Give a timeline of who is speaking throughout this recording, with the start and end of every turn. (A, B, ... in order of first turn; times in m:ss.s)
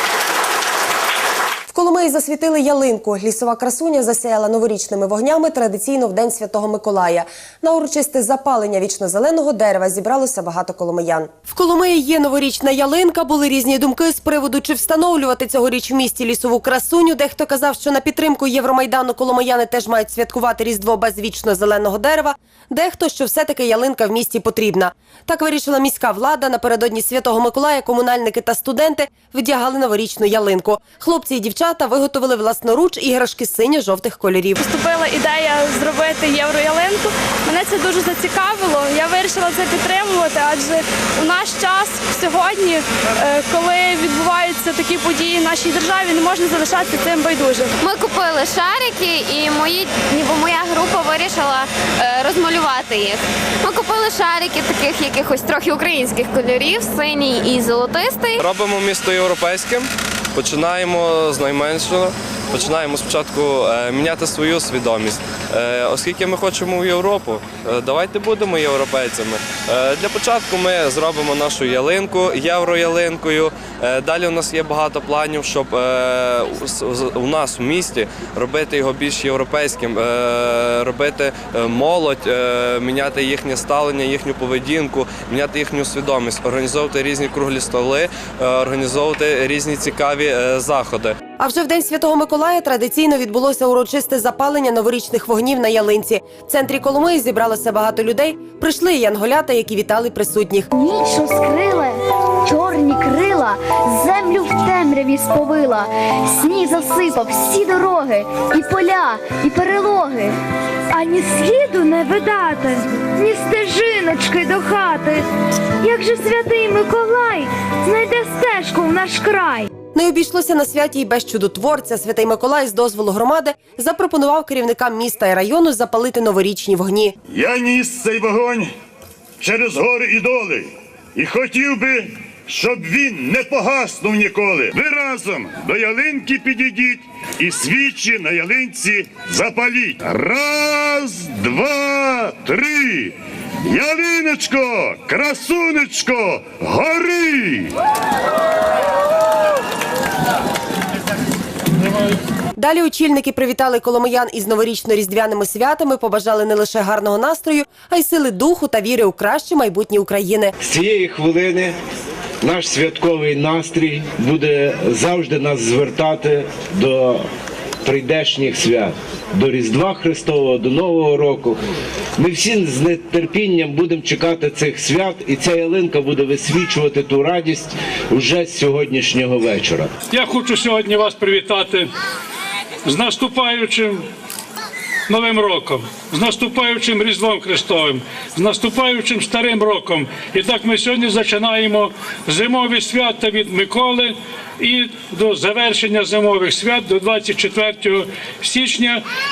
0:01.7-0:34.6 A
0:34.6-0:47.7 B
0:47.8-0:58.4 C
0:58.4-1:31.2 D
1:31.4-1:40.7 A
1:40.7-1:50.4 E
1:50.9-1:55.3 E
1:55.8-1:59.7 E
1:59.9-2:07.2 A
2:07.3-2:08.7 F
2:09.4-2:27.7 F
2:32.6-2:40.5 A
2:40.6-2:41.8 G
2:42.4-2:47.2 G
2:47.8-2:51.6 G
2:52.2-2:59.9 G
3:00.1-3:01.9 H
3:02.8-3:04.1 H
3:05.1-3:19.0 H